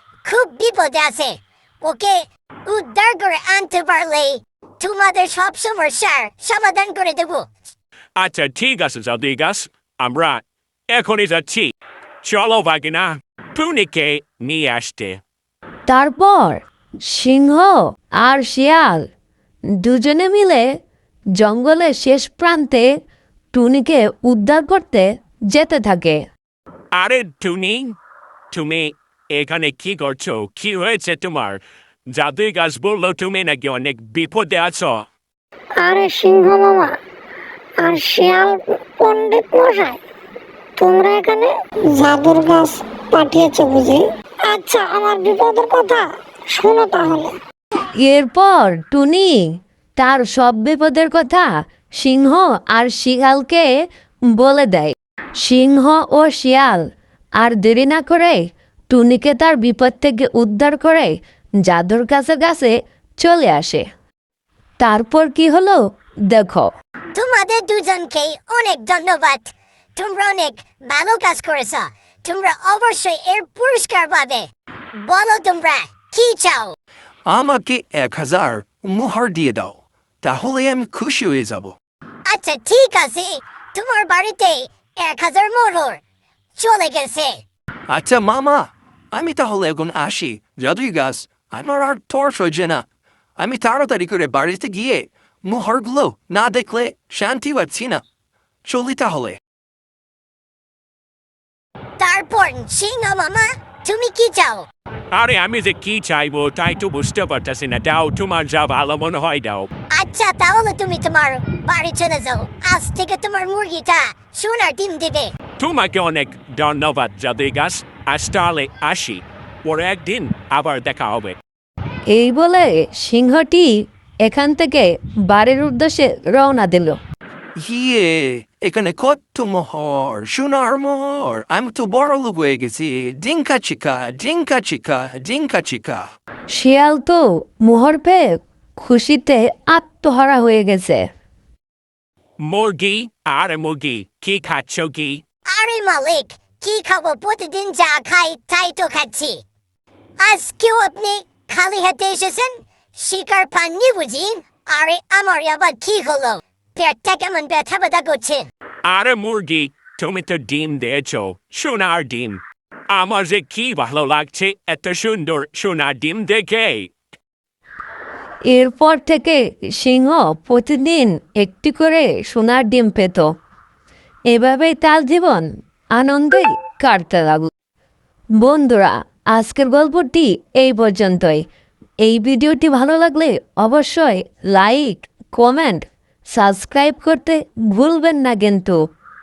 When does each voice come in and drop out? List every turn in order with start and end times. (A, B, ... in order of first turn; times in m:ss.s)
0:00.2-0:07.5 A
0:08.2-0:15.2 B
0:15.9-0:19.1 C
0:19.8-0:20.7 C
0:21.4-0:22.9 C
0:23.5-0:26.2 C
0:26.9-0:28.0 B
0:28.5-0:35.1 B
0:35.9-0:36.8 D
0:37.9-0:38.4 D
0:39.1-0:39.9 D
0:40.8-0:41.5 D
0:42.0-0:44.0 D
0:44.7-0:45.8 D
0:47.0-0:47.3 D
0:48.0-0:53.7 C
0:54.3-0:56.8 C
0:57.4-1:03.9 C
1:04.8-1:06.7 C
1:07.2-1:16.7 A
1:17.3-1:21.8 E
1:22.3-1:26.0 A
1:26.6-1:27.4 A
1:27.9-1:32.9 E
1:33.4-1:38.0 E
1:38.6-1:39.4 E
1:42.0-1:44.7 A
1:45.1-1:49.7 B
1:49.9-1:55.3 A
1:55.6-2:01.4 B
2:02.1-2:07.0 C
2:07.6-2:16.1 E
2:16.5-2:21.1 C
2:22.4-2:25.2 B
2:25.5-2:29.4 A
2:30.2-2:38.5 A
2:38.8-2:46.9 B
2:48.5-2:53.3 C
2:54.3-2:57.5 C
2:58.4-3:01.4 C
3:02.0-3:08.8 C